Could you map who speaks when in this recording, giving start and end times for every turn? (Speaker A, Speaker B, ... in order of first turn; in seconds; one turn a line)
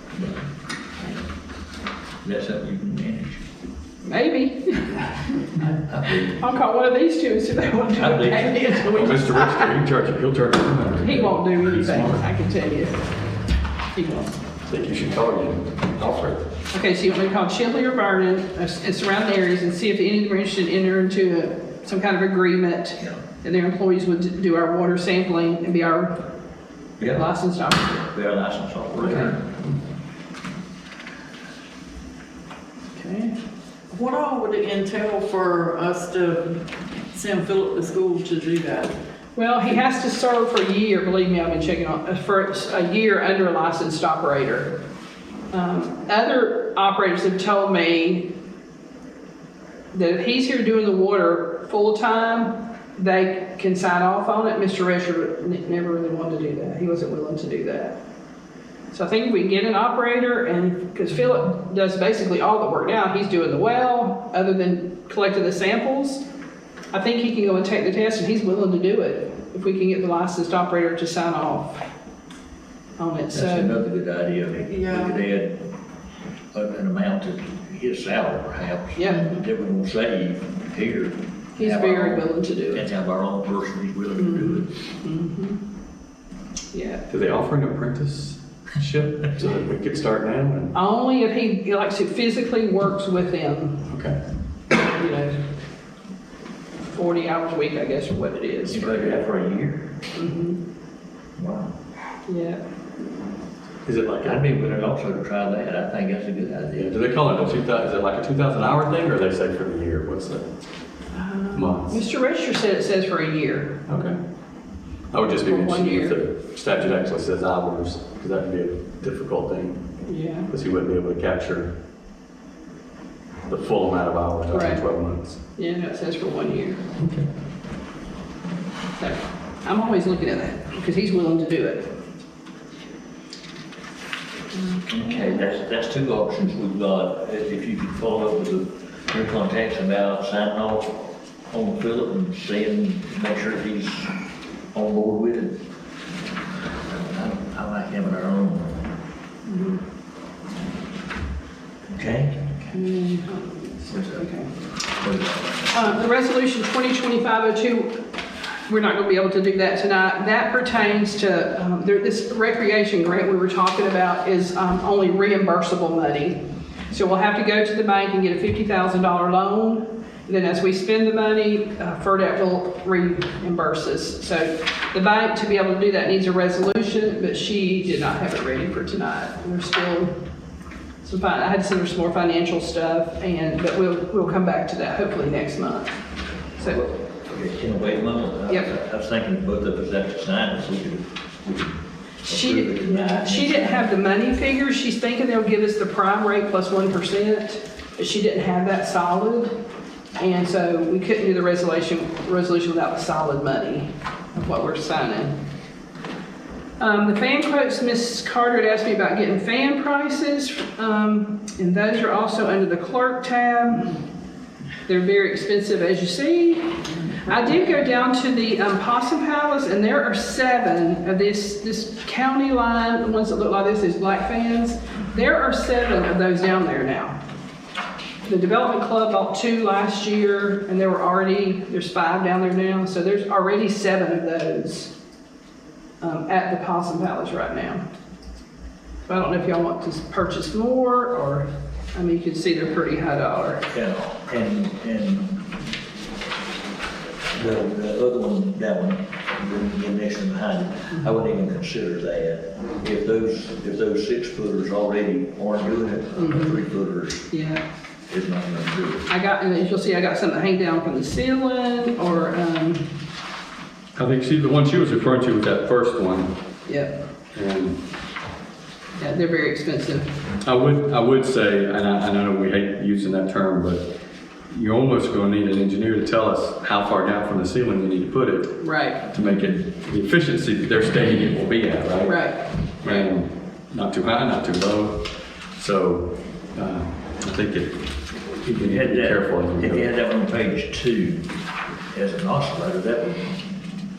Speaker A: 2.2-3.4
Speaker B: 4.0-5.4
Speaker A: 5.8-6.4
Speaker B: 6.3-9.7
Speaker A: 8.0-8.9
Speaker C: 8.9-12.2
Speaker B: 11.0-13.0
Speaker B: 13.9-14.3
Speaker C: 14.7-16.4
Speaker B: 16.7-26.1
Speaker A: 27.0-27.2
Speaker B: 27.1-28.1
Speaker A: 28.1-29.5
Speaker B: 29.0-29.3
Speaker B: 32.9-33.3
Speaker D: 33.9-36.6
Speaker D: 37.1-38.9
Speaker B: 39.4-44.8
Speaker B: 45.5-48.3
Speaker B: 49.9-58.0
Speaker B: 58.9-66.2
Speaker B: 66.9-71.8
Speaker B: 73.0-73.7
Speaker A: 73.3-75.7
Speaker D: 74.7-75.2
Speaker A: 76.5-84.7
Speaker B: 79.0-79.4
Speaker B: 81.5-82.9
Speaker B: 84.2-85.6
Speaker B: 86.7-87.0
Speaker C: 87.1-90.7
Speaker B: 90.7-93.8
Speaker C: 93.9-94.2
Speaker B: 94.8-95.4
Speaker B: 96.8-99.2
Speaker A: 98.7-99.9
Speaker B: 100.1-100.6
Speaker A: 101.4-101.7
Speaker B: 102.3-102.6
Speaker C: 103.8-104.4
Speaker A: 104.2-106.9
Speaker C: 106.8-110.4
Speaker B: 111.1-113.8
Speaker C: 111.5-112.0
Speaker C: 113.9-114.2
Speaker C: 115.1-119.8
Speaker B: 115.2-116.2
Speaker B: 120.1-120.5
Speaker C: 120.5-121.7
Speaker C: 123.5-125.4
Speaker B: 124.5-124.8
Speaker B: 125.5-126.8
Speaker C: 127.0-127.3
Speaker B: 128.9-131.9
Speaker B: 134.5-135.3
Speaker A: 134.9-144.1
Speaker A: 144.7-145.6
Speaker A: 146.8-148.8
Speaker B: 149.4-149.8
Speaker A: 151.8-152.5
Speaker B: 152.7-154.5
Speaker A: 155.0-155.9
Speaker B: 155.7-158.0
Speaker B: 158.7-180.1
Speaker B: 181.0-185.9
Speaker A: 186.7-191.0
Speaker B: 192.2-199.5
Speaker A: 192.2-193.9
Speaker B: 200.2-205.3
Speaker B: 206.8-214.0
Speaker B: 214.8-227.2
Speaker B: 228.2-234.9
Speaker B: 236.0-237.8
Speaker B: 239.1-243.6
Speaker A: 243.7-245.5
Speaker A: 247.3-257.3
Speaker B: 256.2-256.6
Speaker B: 257.3-257.6
Speaker A: 258.1-259.1
Speaker B: 259.1-262.9
Speaker C: 263.9-266.3
Speaker B: 266.6-266.9
Speaker C: 267.3-267.8
Speaker B: 269.0-270.1
Speaker C: 270.4-273.9
Speaker C: 274.5-289.9
Speaker B: 278.6-279.0
Speaker B: 282.0-283.1
Speaker A: 288.5-291.3
Speaker A: 291.9-293.6